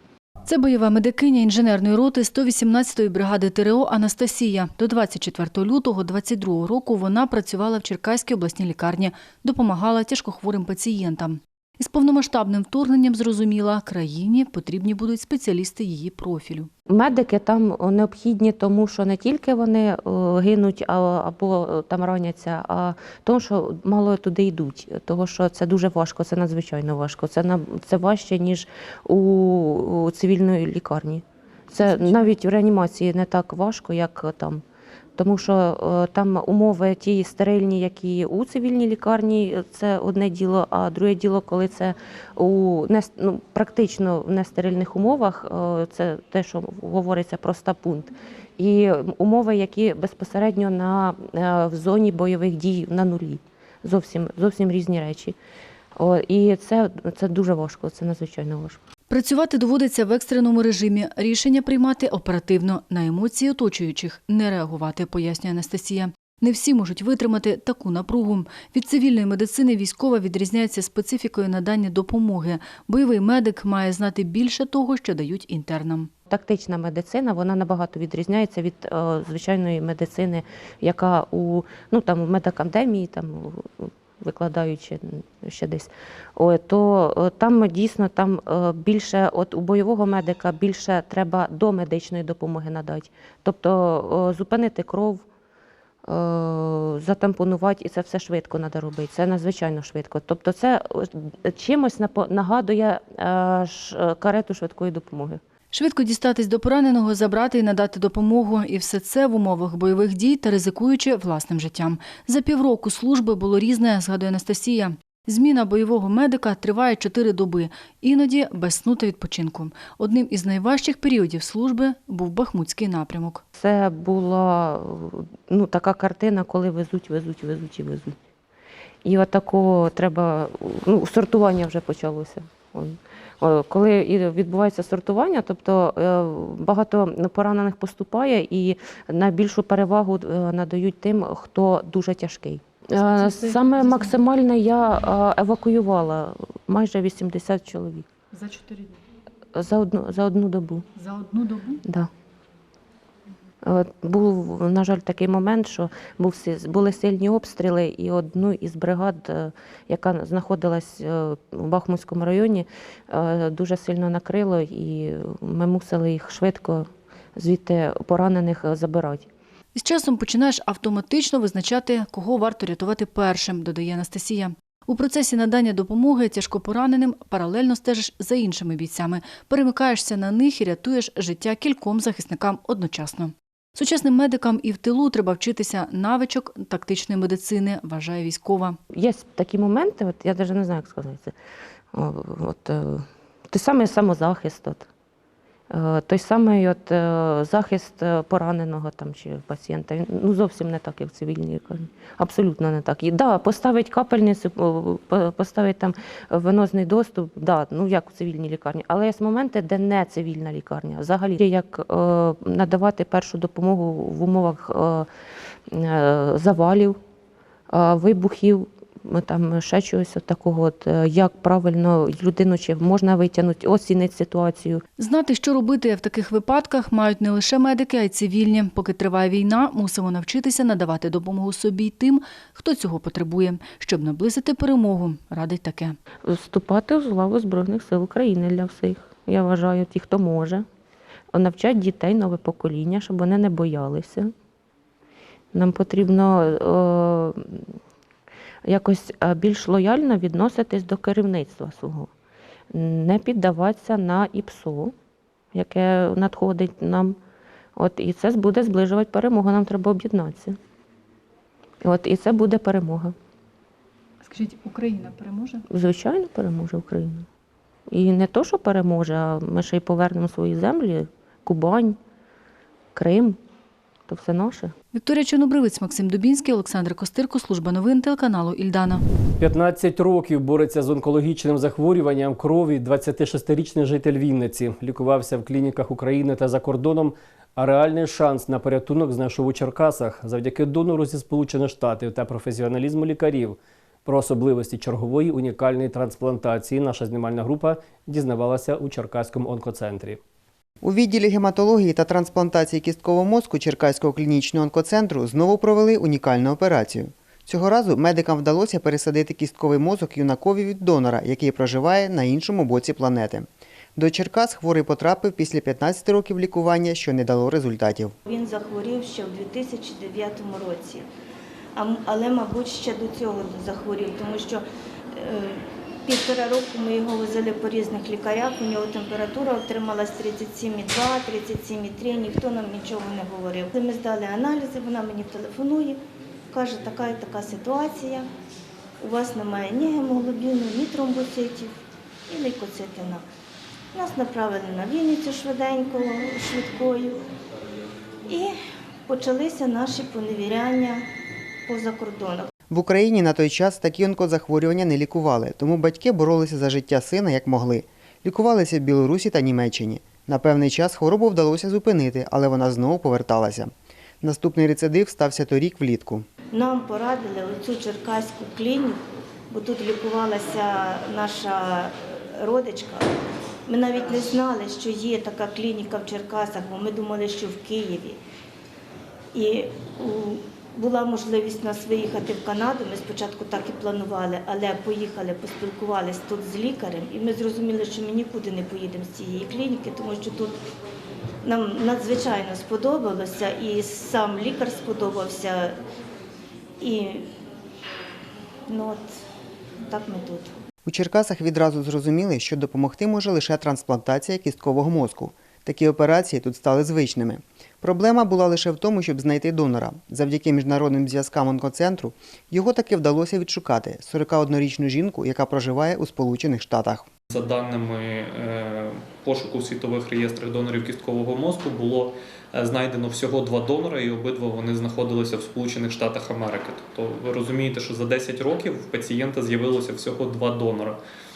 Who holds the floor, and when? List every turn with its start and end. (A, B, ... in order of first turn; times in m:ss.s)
0:00.4-0:16.7 A
0:16.9-0:34.6 B
0:35.2-0:55.4 B
0:56.0-0:58.8 B
0:59.1-1:16.1 A
1:16.3-1:35.2 B
1:36.1-1:45.4 B
1:45.7-2:03.4 A
2:03.6-2:08.2 B
2:09.0-2:28.1 B
2:23.2-2:23.9 A
2:29.6-2:30.9 B
2:31.1-2:31.7 A
2:33.6-2:49.3 B
2:49.8-3:08.8 A
3:08.9-3:11.3 B
3:11.9-3:14.9 B
3:15.7-3:35.1 B
3:35.7-3:37.0 B
3:37.7-3:44.8 B
3:45.0-3:56.0 A
3:56.3-4:00.6 B
4:01.3-4:04.3 B
4:05.5-4:07.7 B
4:08.7-4:12.1 B
4:12.7-4:14.9 B
4:15.5-4:17.2 B
4:17.8-4:20.6 B
4:21.8-4:23.2 B
4:24.2-4:25.6 A
4:25.7-4:27.3 B
4:27.9-4:32.0 B
4:33.0-4:33.4 B
4:34.1-4:34.7 B
4:34.9-4:39.0 A
4:39.4-5:00.2 C
5:00.8-5:18.2 D
5:18.3-5:21.1 E
5:21.8-5:36.0 E
5:36.5-5:38.3 E
5:39.0-5:41.7 E
5:42.3-5:43.2 E
5:43.9-5:47.2 E
5:48.3-5:48.6 E
5:49.1-5:51.1 E
5:51.7-5:52.5 E
5:52.7-6:06.3 D
6:06.5-6:13.1 E
6:13.7-6:18.2 E
6:19.3-6:30.6 E
6:31.4-6:35.8 E
6:36.8-6:37.3 E
6:38.7-6:39.1 E
6:39.8-6:40.5 E
6:40.8-6:57.1 D
6:57.3-7:11.0 F